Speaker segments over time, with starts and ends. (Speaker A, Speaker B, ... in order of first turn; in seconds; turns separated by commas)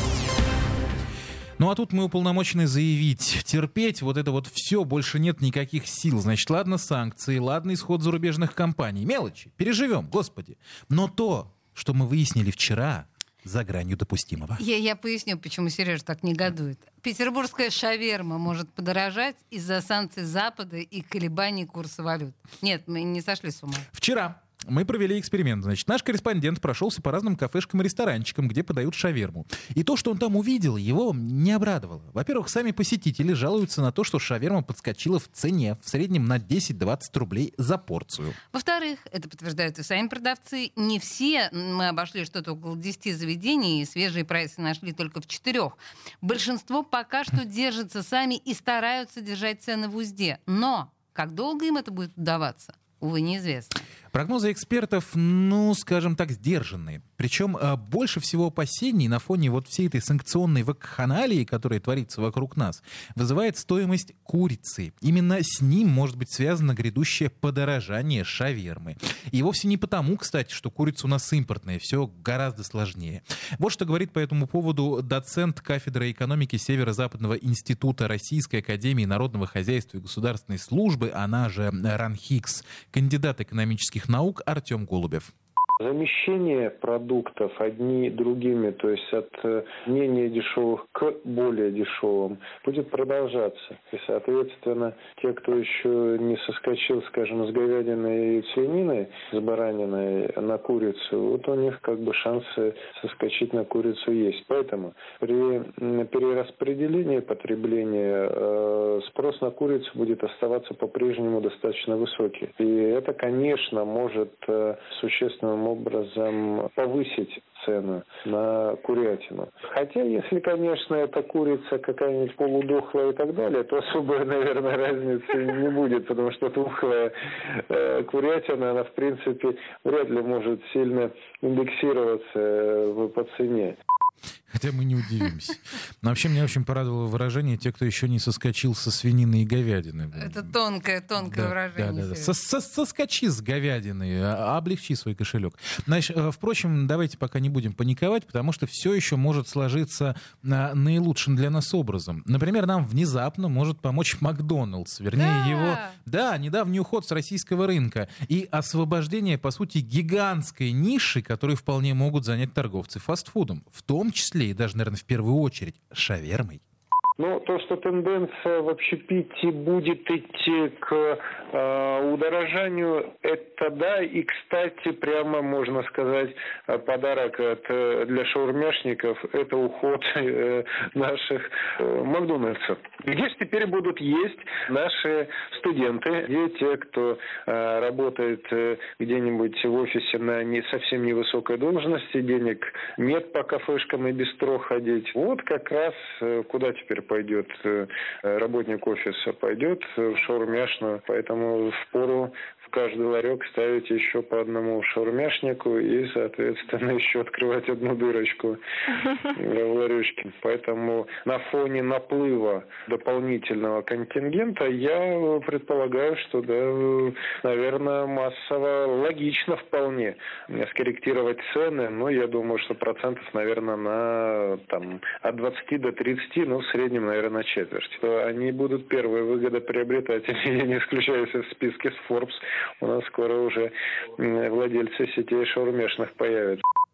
Speaker A: 1.6-14.6, Speaker B: 14.6-23.9, Speaker A: 23.9-38.4, Speaker B: 38.5-53.9, Speaker A: 54.1-85.3, Speaker C: 85.8-133.8, Speaker A: 134.5-140.6, Speaker B: 140.2-142.3, Speaker A: 141.2-166.6, Speaker B: 155.2-155.9, Speaker C: 167.2-208.6, Speaker C: 209.2-236.6